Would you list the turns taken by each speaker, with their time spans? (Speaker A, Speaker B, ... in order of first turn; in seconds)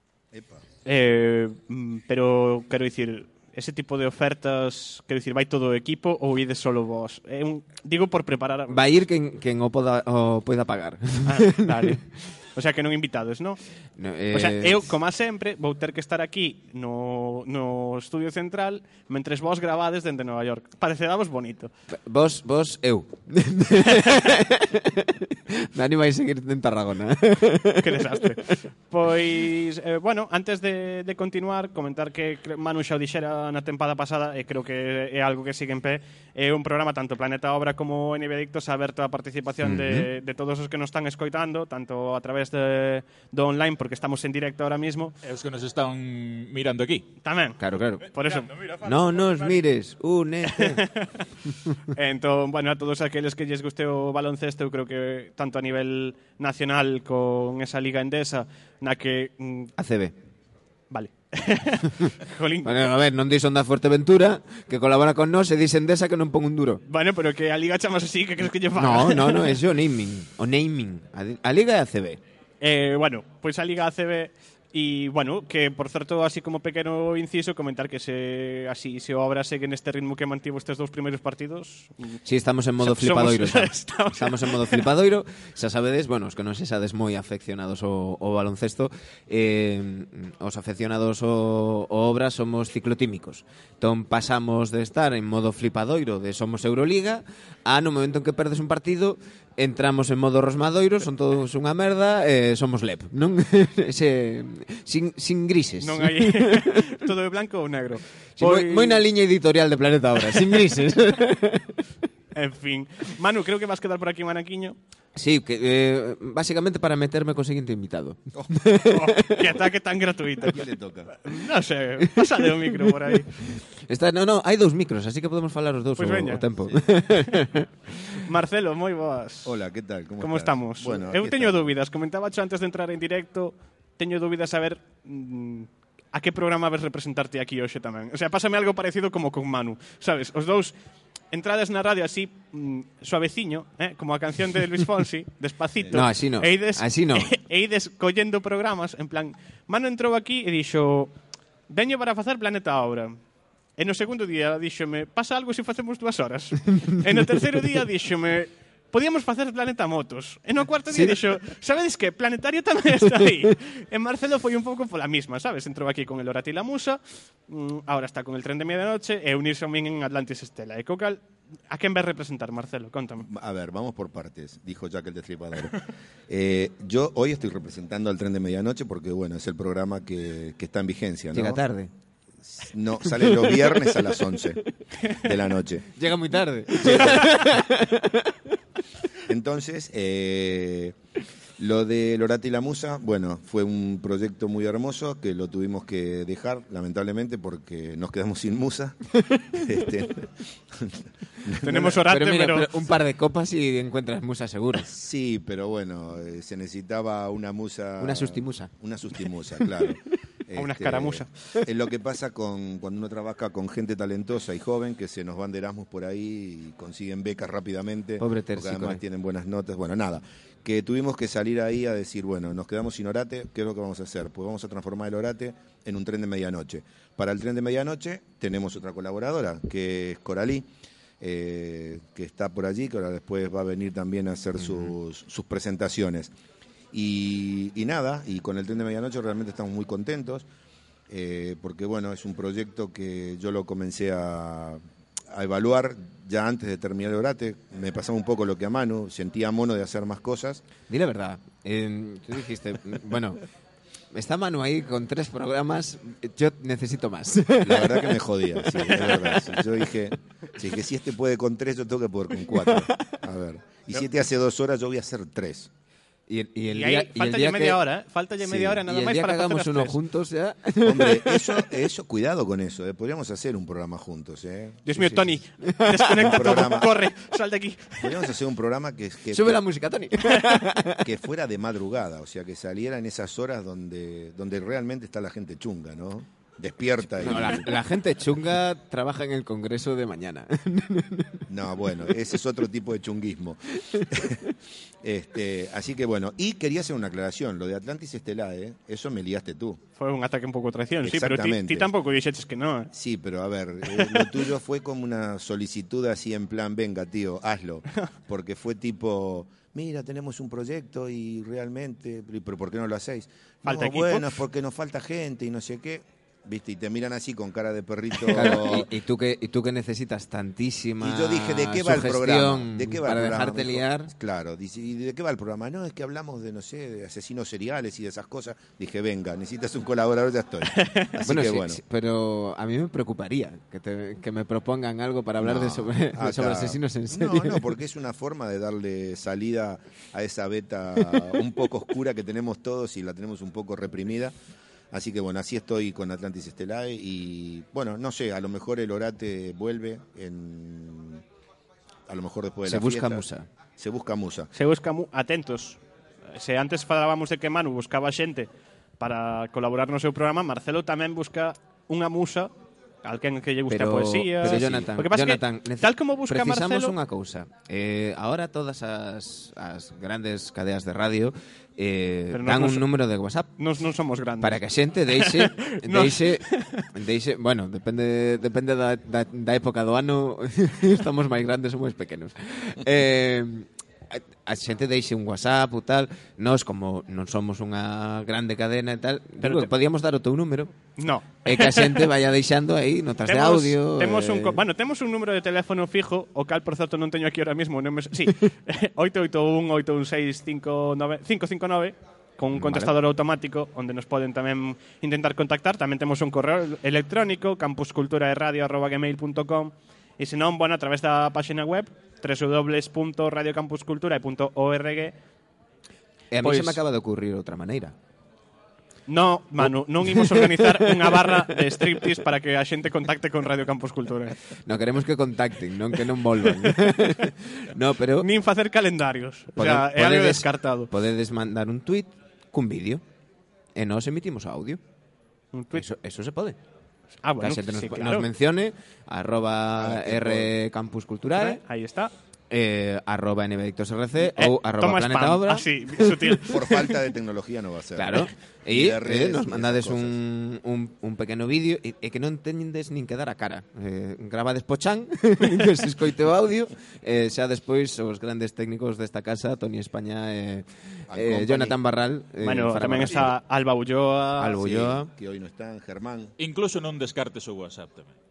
Speaker A: 0.3-0.6, 120.4-121.1, 129.4-131.6, 173.2-181.6, 182.5-185.9, 186.7-187.4, 189.2-190.9, 191.6-199.0, 199.5-202.0, 204.8-230.7, 231.2-236.3, 236.9-240.4, 241.1-250.6, 257.6-265.7, 270.8-275.4, 276.1-277.1, 278.0-279.6, 281.0-287.7, 291.5-299.8, 301.0-301.9, 302.9-318.9, 321.0-331.8, 335.4-344.3, 344.9-351.2, 352.1-354.5, 364.5-364.9, 439.8-440.5, 446.4-450.1, 461.1-461.7, 462.8-463.3, 464.5-466.3
Speaker B: 0.8-8.8, 11.2-13.6, 14.3-21.7, 27.8-45.1, 47.2-48.5, 50.5-51.2, 51.9-59.7, 60.9-62.9, 66.8-69.6, 72.6-82.2, 82.8-84.8, 105.8-109.0, 112.3-114.8, 118.9-120.6, 121.1-123.3, 126.0-126.4, 128.1-129.5, 130.2-140.7, 141.3-151.1, 151.7-153.2, 153.8-173.2, 201.6-202.9, 210.6-211.3, 266.7-270.0, 274.8-278.2, 300.0-302.9, 313.6-314.3, 330.7-331.1, 354.5-362.5, 363.0-366.9, 372.3-372.9, 373.6-376.8, 389.4-389.7, 391.0-392.1, 393.2-415.1, 416.4-416.8, 419.1-424.4, 426.5-426.8, 428.2-430.9, 435.5-435.8, 437.2-438.3, 441.3-442.1, 444.2-446.9, 462.4-464.6
Speaker C: 8.7-11.9, 13.9-14.9, 21.9-28.2, 39.6-40.1, 47.6-48.0, 48.8-50.9, 59.8-60.1, 62.6-66.8, 68.7-72.2, 82.2-106.8, 108.4-111.8, 115.1-119.5, 122.6-127.9, 145.9-147.3, 160.9-161.2, 181.3-181.9, 183.1-184.4, 185.9-188.4, 202.0-204.9, 208.0-208.7, 218.2-219.0, 234.6-234.9, 250.9-253.4, 254.1-259.8, 262.3-262.9, 266.3-267.8, 268.4-271.7, 275.6-276.7, 279.3-281.0, 287.2-291.4, 318.2-324.1, 331.2-337.7, 352.6-353.5, 363.7-373.5, 374.4-394.6, 402.5-402.9, 416.3-417.9, 419.6-421.4, 424.6-428.3, 429.5-433.0, 433.7-434.8, 435.7-436.6, 437.4-441.6, 442.5-446.4, 447.9-463.3, 464.4-465.1
Speaker D: 45.2-47.1, 48.0-49.6, 466.4-468.1